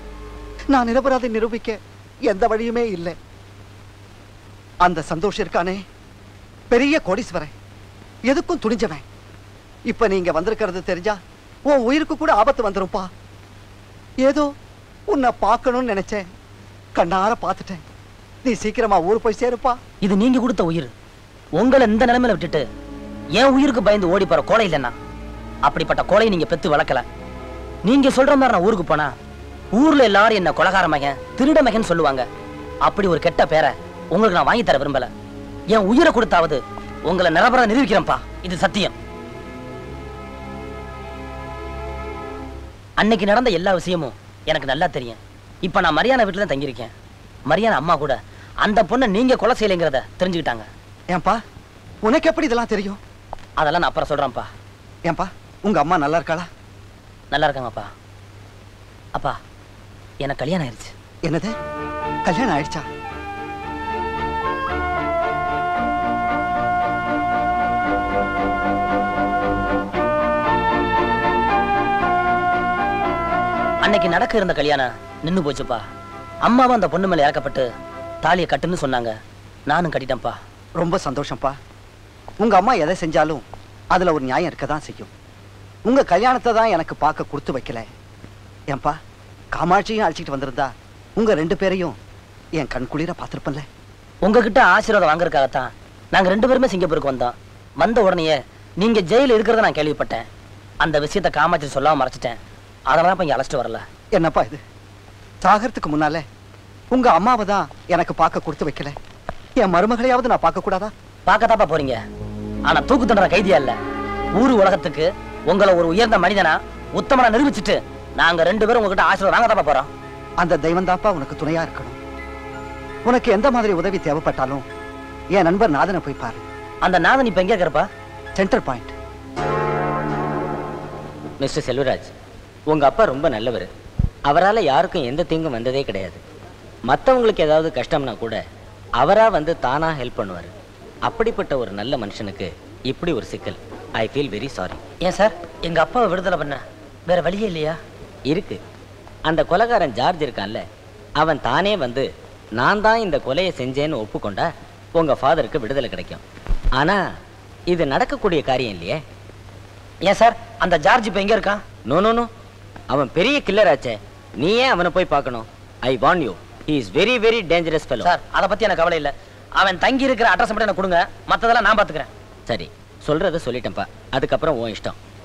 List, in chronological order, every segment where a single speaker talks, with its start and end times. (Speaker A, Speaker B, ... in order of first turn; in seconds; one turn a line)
Speaker A: 0.7-3.1
Speaker A: 4.8-5.8
Speaker A: 6.7-7.5
Speaker A: 8.3-9.0
Speaker A: 9.9-13.1
Speaker A: 14.2-14.5
Speaker A: 15.1-16.2
Speaker A: 16.9-17.8
Speaker A: 18.4-19.8
Speaker B: 20.0-20.9
Speaker B: 21.6-22.6
Speaker B: 23.4-24.9
Speaker B: 25.7-27.1
Speaker B: 27.8-29.1
Speaker B: 29.7-32.2
Speaker B: 32.8-35.1
Speaker B: 35.7-39.0
Speaker B: 43.0-46.9
Speaker B: 47.5-50.7
Speaker A: 51.1-51.4
Speaker A: 52.0-53.0
Speaker B: 53.6-54.5
Speaker A: 55.1-56.5
Speaker B: 57.3-57.9
Speaker B: 60.2-60.9
Speaker A: 61.3-61.5
Speaker A: 62.2-62.8
Speaker B: 73.8-75.8
Speaker B: 76.4-77.7
Speaker B: 78.2-79.1
Speaker B: 79.7-80.3
Speaker A: 80.8-81.5
Speaker A: 82.4-83.4
Speaker A: 83.9-85.1
Speaker A: 85.8-87.9
Speaker A: 88.7-89.0
Speaker A: 89.5-92.0
Speaker A: 92.6-93.6
Speaker B: 94.2-100.2
Speaker B: 100.8-102.4
Speaker B: 102.9-103.8
Speaker A: 104.1-104.6
Speaker A: 105.4-106.2
Speaker A: 106.9-109.0
Speaker A: 109.6-110.9
Speaker B: 111.3-112.0
Speaker B: 112.7-113.8
Speaker B: 114.4-119.9
Speaker A: 120.4-122.0
Speaker A: 123.0-124.6
Speaker A: 125.3-126.4
Speaker B: 126.8-127.9
Speaker A: 128.4-128.9
Speaker C: 131.4-132.1
Speaker C: 132.7-133.7
Speaker C: 134.3-136.2
Speaker C: 136.9-138.4
Speaker C: 139.0-140.5
Speaker C: 141.1-144.8
Speaker B: 145.0-147.8
Speaker C: 148.3-148.6
Speaker C: 149.2-150.6
Speaker C: 151.2-156.2
Speaker C: 156.8-157.0
Speaker C: 157.7-159.0
Speaker B: 160.0-161.6
Speaker C: 161.9-162.3
Speaker C: 162.9-168.1
Speaker B: 168.0-172.1
Speaker C: 172.5-175.0